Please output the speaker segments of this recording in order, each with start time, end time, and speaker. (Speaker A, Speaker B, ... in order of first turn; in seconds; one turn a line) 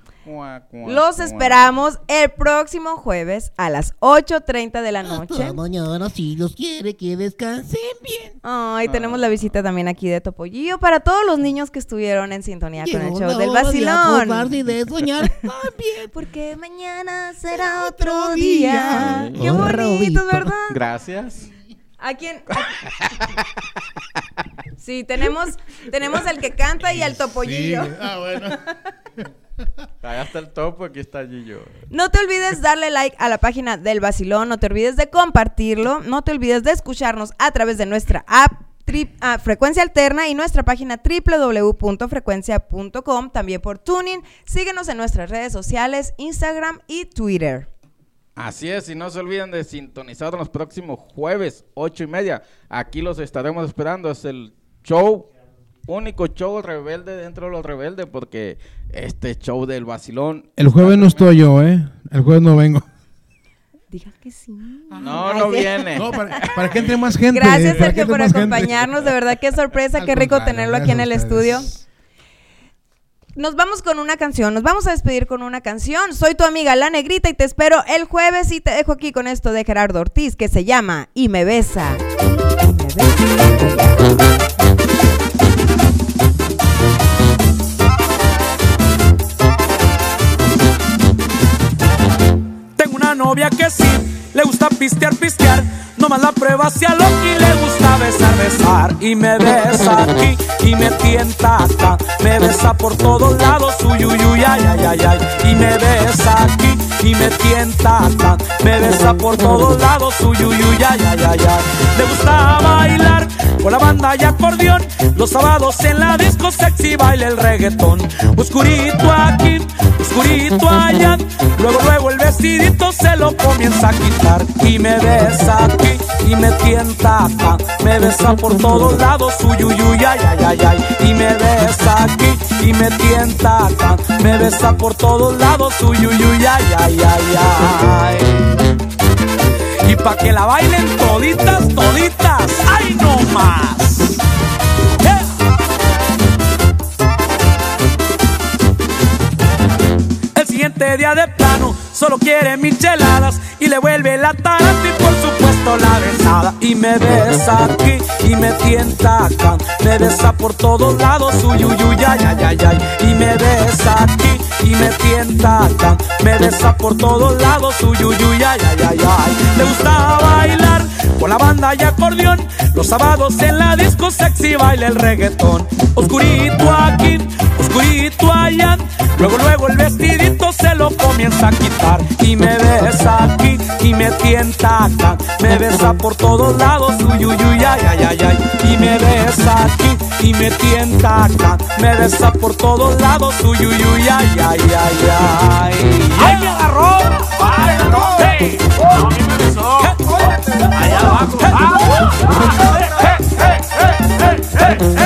Speaker A: 0.2-1.7
Speaker B: 0.8-5.6
Speaker C: 5.0-8.4
Speaker B: 8.4-14.6
Speaker A: 8.8-9.5
Speaker C: 12.8-16.1
Speaker B: 16.1-20.8
Speaker C: 17.5-20.5
Speaker A: 19.0-19.6
Speaker A: 20.7-21.5
Speaker B: 22.0-22.8
Speaker B: 24.8-28.0
Speaker D: 27.1-28.6
Speaker A: 30.0-31.8
Speaker B: 31.9-47.7
Speaker A: 48.4-55.3
Speaker A: 55.9-61.3
Speaker D: 60.6-62.9
Speaker B: 63.9-66.7
Speaker A: 65.0-66.2
Speaker D: 65.0-69.1
Speaker B: 67.3-71.7
Speaker D: 69.9-71.8
Speaker B: 73.4-84.3
Speaker E: 92.8-138.5
Speaker E: 139.8-144.2
Speaker E: 145.0-145.3
Speaker E: 150.3-198.6
Speaker E: 199.7-202.1